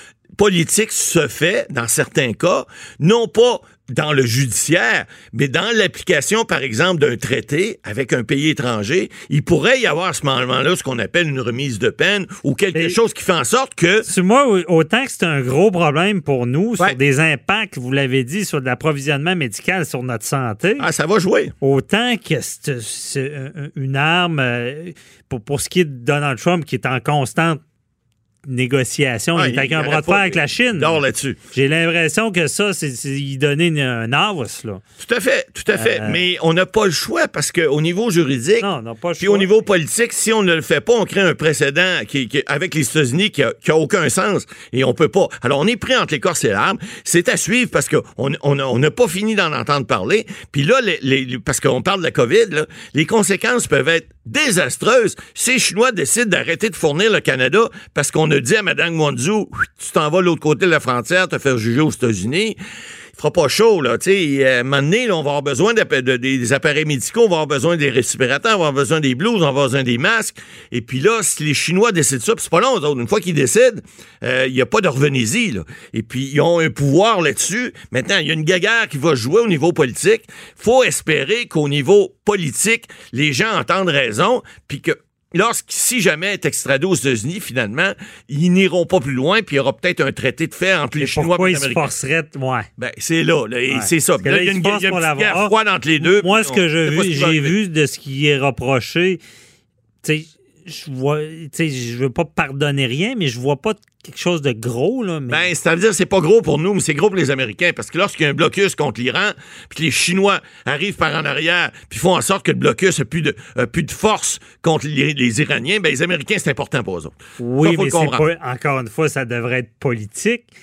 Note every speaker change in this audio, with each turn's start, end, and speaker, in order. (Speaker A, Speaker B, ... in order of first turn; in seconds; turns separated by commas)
Speaker A: 0.4-14.1, Speaker B: 14.1-20.9, Speaker A: 20.8-21.5, Speaker B: 21.6-27.6, Speaker B: 28.5-31.0, Speaker A: 29.4-31.4, Speaker B: 31.5-34.8, Speaker A: 35.0-38.7, Speaker B: 35.7-36.2, Speaker B: 38.6-39.5, Speaker A: 39.2-62.6, Speaker A: 63.1-91.9, Speaker B: 91.0-92.7, Speaker A: 92.8-97.5, Speaker B: 93.7-99.2, Speaker B: 100.0-105.5, Speaker A: 105.3-118.2, Speaker B: 117.4-120.5